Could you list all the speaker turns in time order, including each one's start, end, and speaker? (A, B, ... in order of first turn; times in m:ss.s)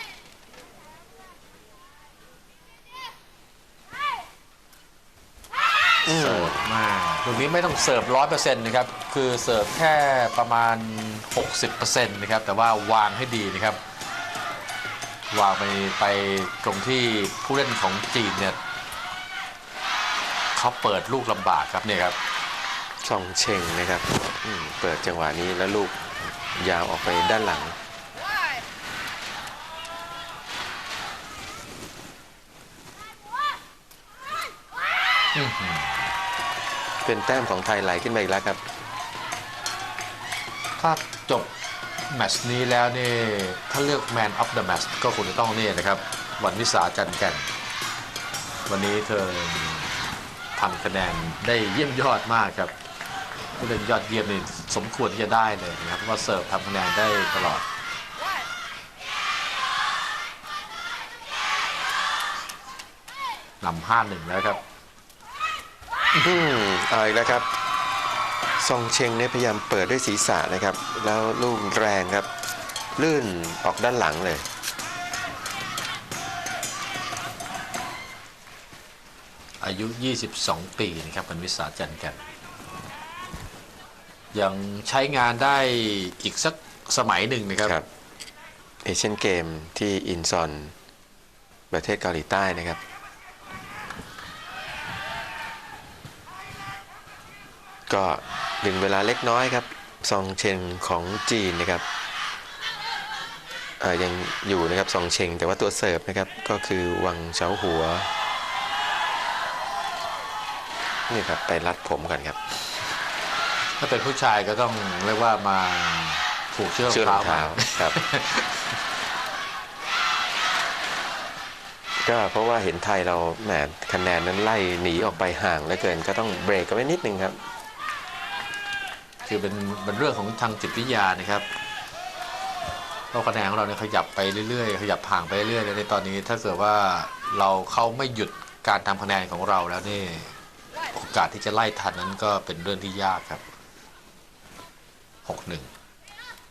0:06.0-0:06.7 A
0:06.1-0:13.8 B
0:15.3-0:18.6 B
0:20.6-0:22.2 B
0:23.0-0:26.0 A
0:26.6-0:27.8 A
0:35.3-0:36.1 B
0:37.0-0:38.6 A
0:40.8-0:41.5 B
0:42.1-0:47.5 B
0:48.7-0:49.9 B
0:50.5-0:52.7 B
0:53.6-0:57.6 B
1:03.6-1:04.6 B
1:06.1-1:06.4 B
1:06.2-1:07.5 A
1:08.6-1:12.3 A
1:13.0-1:14.5 A
1:19.6-1:22.2 B
1:24.3-1:27.8 B
1:28.8-1:30.7 A
1:31.7-1:32.8 A
1:37.9-1:41.8 A
1:43.8-1:48.1 A
1:51.1-1:52.4 A
1:53.8-1:58.7 B
1:56.9-1:58.0 A
2:02.0-2:07.4 A
2:09.2-2:11.5 B
2:13.1-2:20.3 B
2:20.9-2:23.4 B
2:25.2-2:25.7 B